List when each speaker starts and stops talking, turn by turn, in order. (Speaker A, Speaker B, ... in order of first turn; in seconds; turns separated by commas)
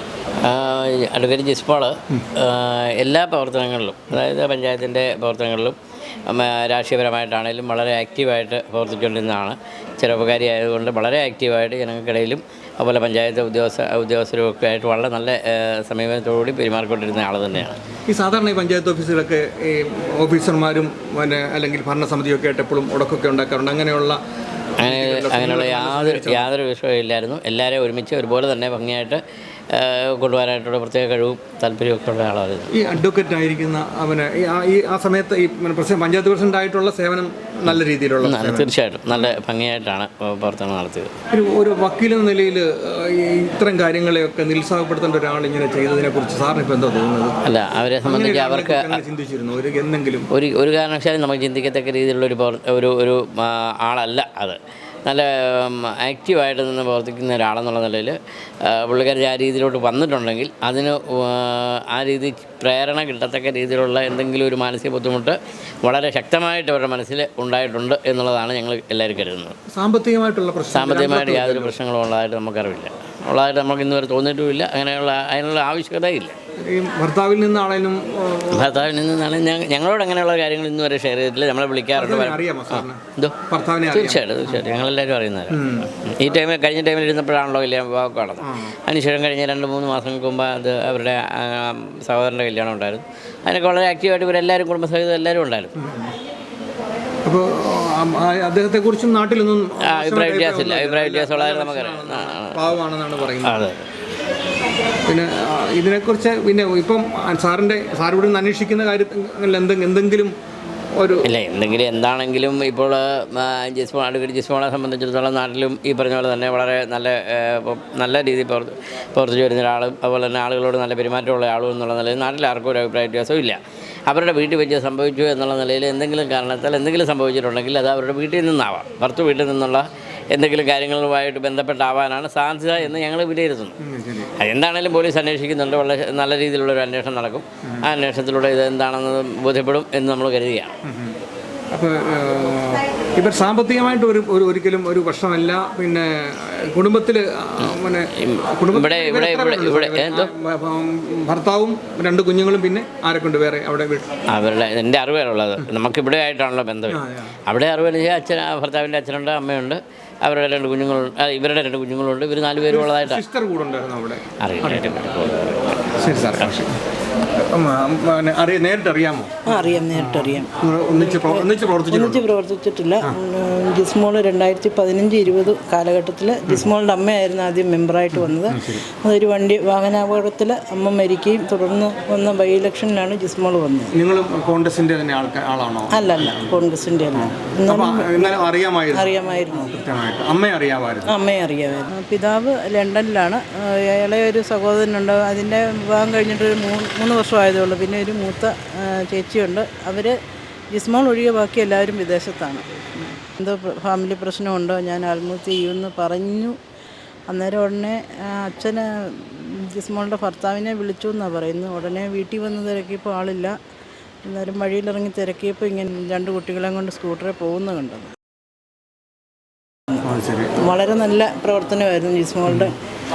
Speaker A: 0.4-5.8, Speaker A: 6.3-17.8, Speaker B: 18.1-24.2, Speaker A: 24.8-29.2, Speaker B: 24.8-26.5, Speaker A: 29.7-32.7, Speaker B: 32.8-39.4, Speaker A: 37.7-41.1, Speaker B: 41.3-47.4, Speaker A: 47.5-49.0, Speaker B: 48.0-50.3, Speaker A: 50.3-58.1, Speaker A: 58.7-69.5, Speaker B: 69.7-71.8, Speaker A: 70.7-76.3, Speaker B: 76.6-78.8, Speaker A: 78.5-95.7, Speaker B: 81.9-84.6, Speaker B: 85.5-85.9, Speaker B: 88.4-88.7, Speaker B: 95.8-96.1, Speaker B: 97.2-103.6, Speaker A: 99.8-102.8, Speaker A: 103.4-103.8, Speaker B: 105.1-110.3, Speaker B: 111.0-111.2, Speaker A: 111.2-133.8, Speaker B: 133.8-134.3, Speaker A: 134.4-140.7, Speaker B: 140.8-141.2, Speaker B: 141.7-154.0, Speaker A: 147.6-150.3, Speaker A: 154.3-163.2, Speaker B: 156.9-157.3, Speaker B: 162.7-164.9, Speaker A: 164.4-166.6, Speaker B: 166.0-166.8, Speaker B: 167.4-172.2, Speaker C: 169.4-183.9, Speaker B: 178.1-178.8, Speaker B: 183.9-186.6, Speaker C: 185.9-189.7, Speaker B: 187.1-191.1, Speaker C: 191.1-200.2, Speaker C: 200.7-206.6, Speaker C: 207.3-213.6, Speaker C: 214.2-218.1, Speaker B: 220.0-220.5, Speaker C: 220.6-222.8